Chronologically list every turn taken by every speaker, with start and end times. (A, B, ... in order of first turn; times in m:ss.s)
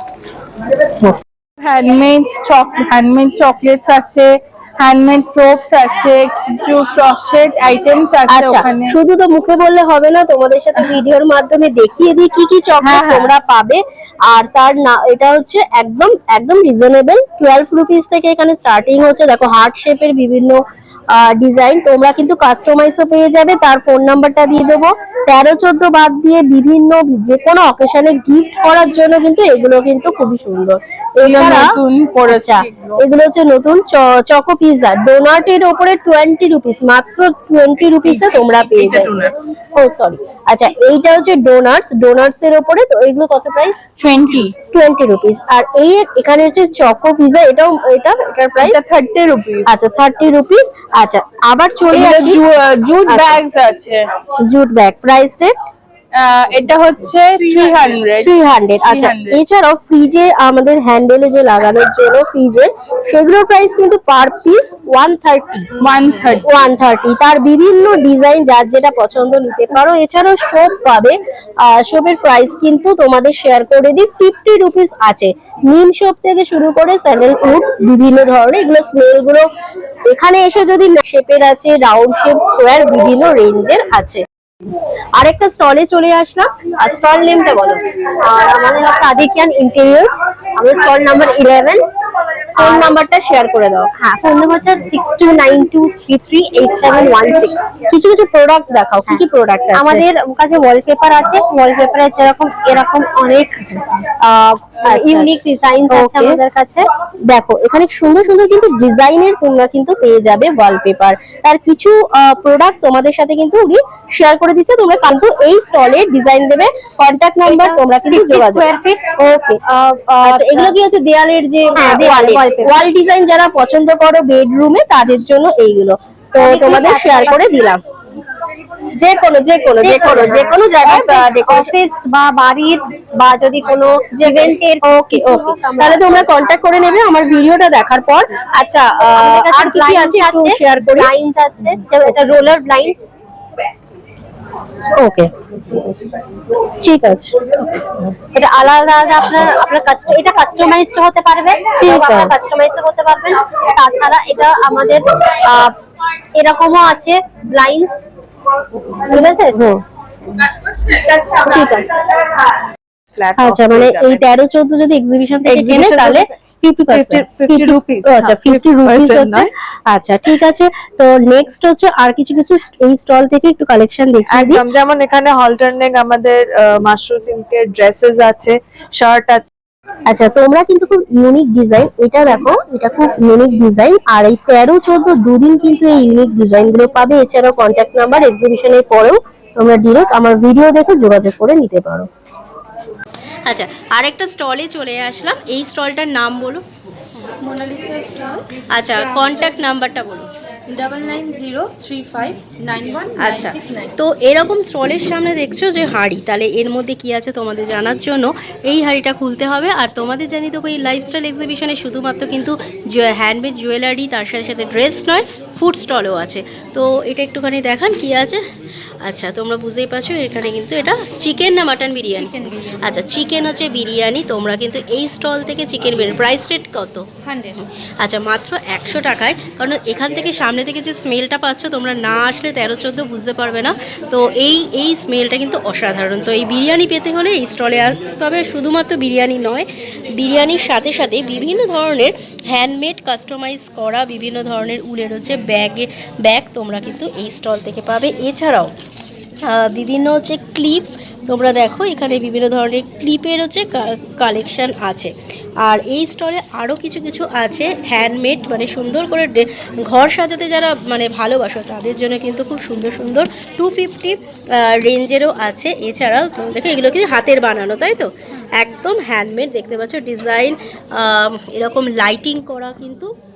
0:01.6-0:08.9 A
0:08.3-0:20.6 B
0:12.9-0:13.3 A
0:21.1-0:39.2 B
0:31.2-0:33.0 A
0:38.6-0:39.5 A
0:39.8-0:43.8 B
0:44.0-0:44.5 A
0:44.7-0:48.8 B
0:48.6-0:49.8 A
0:49.7-0:52.4 B
0:51.9-0:54.0 A
0:53.1-0:53.4 B
0:54.4-0:55.5 B
0:56.2-0:58.3 A
0:58.2-1:05.7 B
0:58.8-0:59.4 A
1:05.8-1:06.4 A
1:06.4-1:19.5 B
1:20.0-1:24.2 B
1:25.2-1:27.8 B
1:28.2-1:31.8 C
1:32.5-1:32.9 C
1:32.6-1:33.9 B
1:34.0-1:37.8 C
1:37.8-1:40.0 B
1:39.7-1:44.1 C
1:44.2-1:45.4 B
1:44.8-1:46.8 C
1:45.9-1:46.4 B
1:47.3-1:59.6 B
1:57.5-1:59.1 C
1:59.7-2:02.8 C
2:00.2-2:00.7 B
2:01.7-2:07.8 B
2:06.4-2:07.5 C
2:09.0-2:11.7 B
2:09.8-2:16.5 C
2:14.8-2:21.1 B
2:19.2-2:23.1 C
2:25.0-2:26.0 B
2:26.8-2:28.1 B
2:28.3-2:35.8 C
2:31.8-2:32.3 B
2:36.4-2:38.0 C
2:39.0-2:39.6 C
2:39.1-2:39.8 B
2:41.3-2:41.9 B
2:43.1-2:44.3 D
2:43.4-2:54.7 B
2:45.5-2:46.3 D
2:46.9-2:49.4 D
2:54.3-2:59.5 D
3:00.1-3:12.1 B
3:13.5-3:16.6 E
3:17.4-3:19.6 F
3:18.7-3:20.3 E
3:20.7-3:23.9 F
3:23.2-3:38.4 E
3:39.1-3:47.1 E
3:42.1-3:42.7 F
3:47.2-3:47.6 F
3:48.0-3:59.7 E
4:00.2-4:08.7 E
4:09.5-4:15.1 E
4:15.6-4:24.2 E
4:24.9-4:28.0 E
4:28.6-4:30.5 E
4:31.3-4:33.0 E